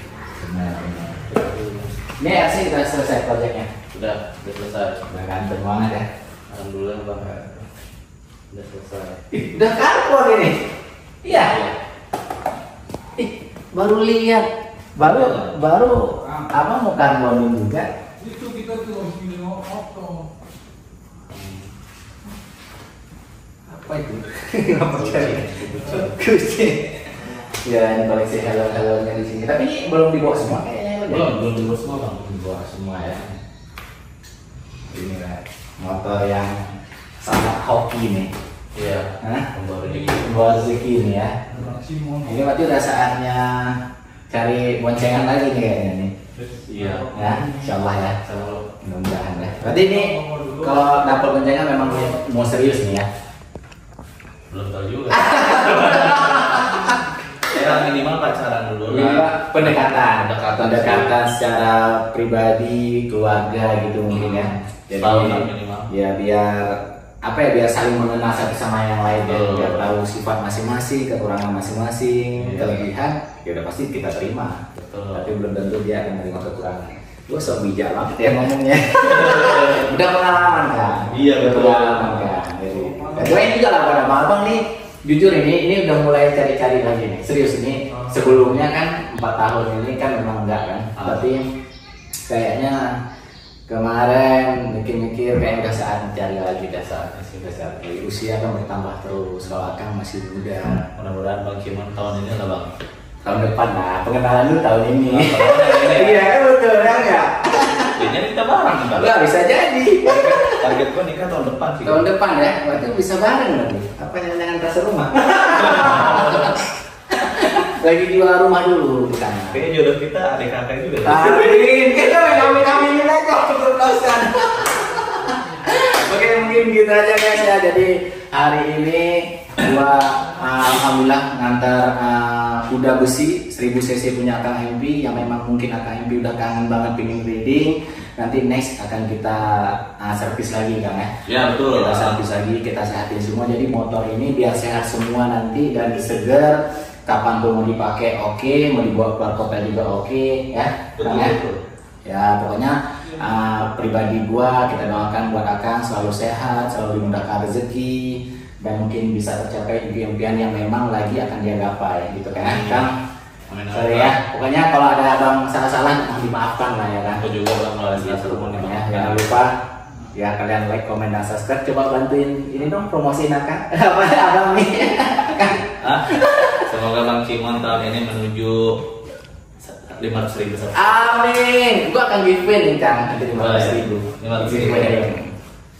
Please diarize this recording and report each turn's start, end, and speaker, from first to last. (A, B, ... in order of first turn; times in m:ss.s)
0:00.4-0:01.2 A
0:01.3-0:01.9 B
0:02.2-0:03.7 A
0:03.9-0:05.0 B
0:05.1-0:06.1 A
0:06.5-0:07.6 B
0:08.5-0:09.2 B
0:09.3-0:10.6 A
0:11.2-0:11.6 A
0:11.3-0:11.8 B
0:13.2-0:17.9 A
0:15.0-0:15.6 B
0:18.2-0:20.3 C
0:21.3-0:21.7 B
0:23.7-0:33.3 A
0:24.9-0:26.2 B
0:31.1-0:32.4 B
0:34.9-0:36.6 A
0:37.2-0:38.3 A
0:38.7-0:40.7 B
0:39.2-0:39.5 A
0:40.1-0:41.5 A
0:41.5-0:41.8 B
0:41.6-0:42.3 C
0:42.2-0:46.1 A
0:46.4-0:47.7 B
0:47.1-0:48.2 A
0:48.2-0:48.7 B
0:48.8-0:53.1 A
0:49.8-0:51.1 C
0:54.5-0:56.9 B
0:55.1-0:57.6 A
0:57.5-1:01.2 B
0:58.9-1:14.6 A
1:04.1-1:05.9 B
1:09.2-1:09.9 B
1:12.4-1:12.9 B
1:14.7-1:15.3 B
1:15.1-1:31.5 A
1:18.8-1:20.0 B
1:21.0-1:22.5 B
1:23.0-1:23.4 B
1:28.0-1:28.4 B
1:31.0-1:31.3 B
1:32.2-1:33.0 A
1:33.7-1:40.8 A
1:39.4-1:39.7 B
1:40.9-1:42.7 B
1:43.2-1:48.0 A
1:45.0-1:46.3 B
1:48.0-1:49.1 B
1:48.9-1:50.7 A
1:50.0-1:52.1 B
1:51.8-1:59.6 A
1:55.6-1:56.5 B
1:59.5-2:01.8 B
2:01.0-2:31.4 A
2:21.2-2:22.2 B
2:31.0-2:31.6 B
2:32.0-2:42.9 A
2:42.3-2:42.9 B
2:43.5-2:44.2 B
2:43.7-2:47.3 A
2:47.2-2:49.4 B
2:47.9-2:49.5 A
2:50.1-2:56.6 A
2:55.8-2:58.8 B
2:59.6-3:01.1 B
3:00.7-3:05.3 A
3:03.3-3:05.1 B